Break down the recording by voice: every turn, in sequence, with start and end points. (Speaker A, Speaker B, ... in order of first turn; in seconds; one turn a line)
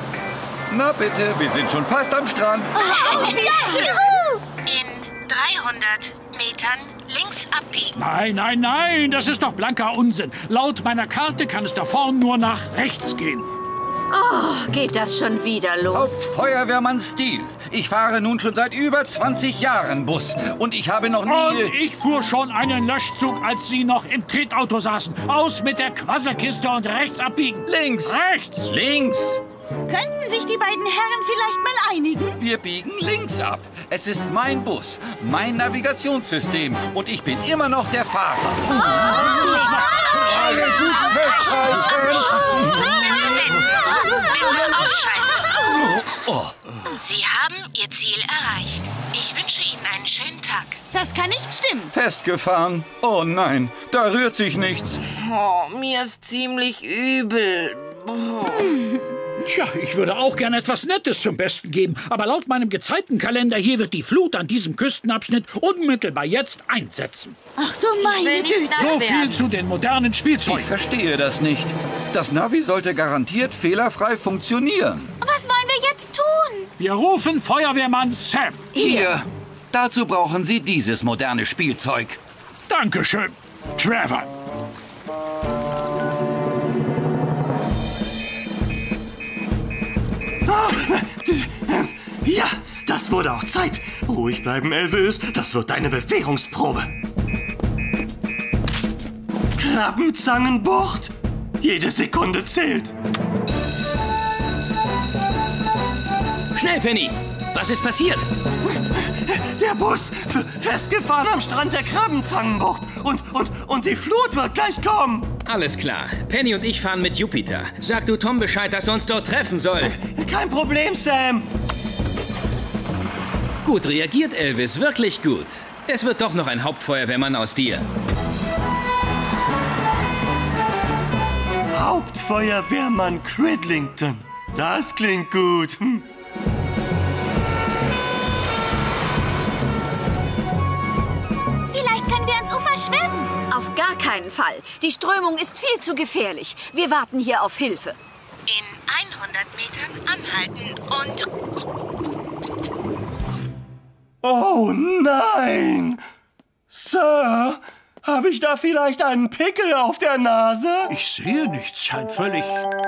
Speaker A: 0.7-3.1
Speaker B: 3.1-3.9
Speaker C: 3.1-3.9
Speaker D: 4.7-7.9
Speaker E: 7.9-13.5
Speaker F: 14.1-16.3
Speaker A: 15.9-21.8
Speaker E: 21.2-28.7
Speaker A: 27.6-29.4
Speaker C: 29.9-32.4
Speaker A: 32.4-43.4
Speaker C: 38.9-39.8
Speaker C: 40.4-40.8
Speaker C: 41.6-42.0
Speaker D: 43.1-43.7
Speaker A: 43.9-44.7
Speaker D: 44.3-45.4
Speaker A: 45.5-46.5
Speaker D: 47.0-50.7
Speaker C: 50.9-51.9
Speaker A: 51.9-55.0
Speaker G: 55.2-58.5
Speaker C: 58.7-58.9
Speaker E: 59.4-67.3
Speaker C: 67.6-69.0
Speaker G: 68.0-69.4
Speaker E: 68.7-70.7
Speaker A: 70.4-75.1
Speaker B: 75.2-76.7
Speaker E: 76.8-78.7
Speaker A: 78.7-82.2
Speaker B: 78.8-79.1
Speaker E: 82.7-84.3
Speaker H: 90.5-96.9
Speaker H: 99.6-102.9
Speaker I: 106.5-108.3
Speaker H: 108.8-115.3
Speaker I: 115.5-120.0
Speaker H: 120.0-121.5
Speaker I: 123.6-127.8
Speaker H: 131.7-136.0
Speaker B: 141.7-143.3
Speaker F: 143.5-148.0
Speaker D: 148.5-151.2
Speaker H: 154.2-156.0
Speaker H: 156.7-160.9
Speaker E: 160.9-162.7